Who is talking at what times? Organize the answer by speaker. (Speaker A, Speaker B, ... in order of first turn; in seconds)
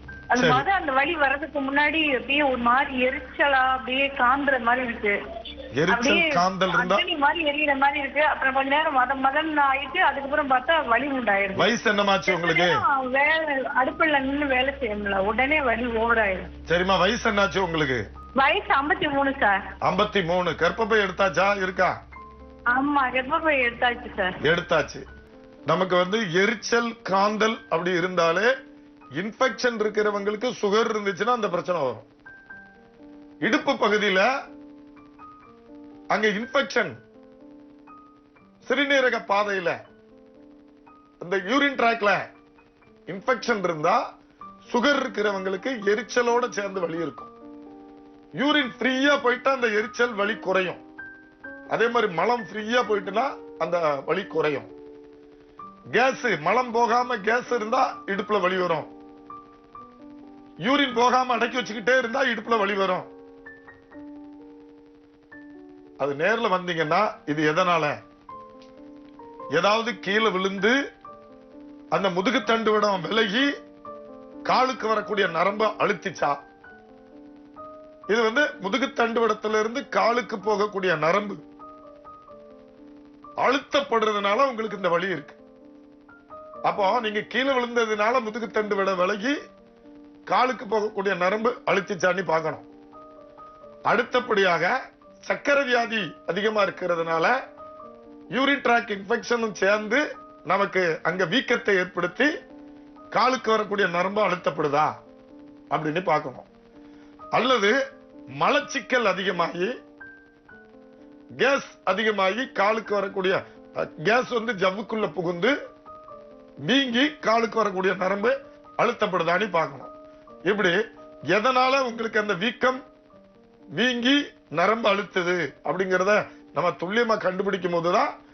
Speaker A: 0.3-5.2, 5.9-11.7, 12.3-16.5, 18.4-19.6, 22.7-24.4
Speaker B: 0.4-0.7, 5.8-7.0, 11.6-12.8, 16.7-18.0, 19.8-21.9, 24.4-25.0, 25.7-28.5, 29.2-32.1, 33.4-34.3, 36.1-36.9, 38.6-39.8, 41.2-42.2, 43.1-44.0, 44.7-47.3, 48.4-50.8, 51.7-54.7, 55.9-58.9, 60.6-63.1, 66.0-67.9, 69.5-70.8, 71.9-73.5, 74.5-76.4, 78.1-81.4, 83.4-85.4, 86.7-89.3, 90.3-92.7, 93.9-97.3, 98.3-102.3, 103.1-104.9, 105.7-106.5, 107.3-107.8, 108.4-109.7, 111.4-115.5, 116.7-119.9, 120.5-120.8, 121.3-122.8, 123.8-128.1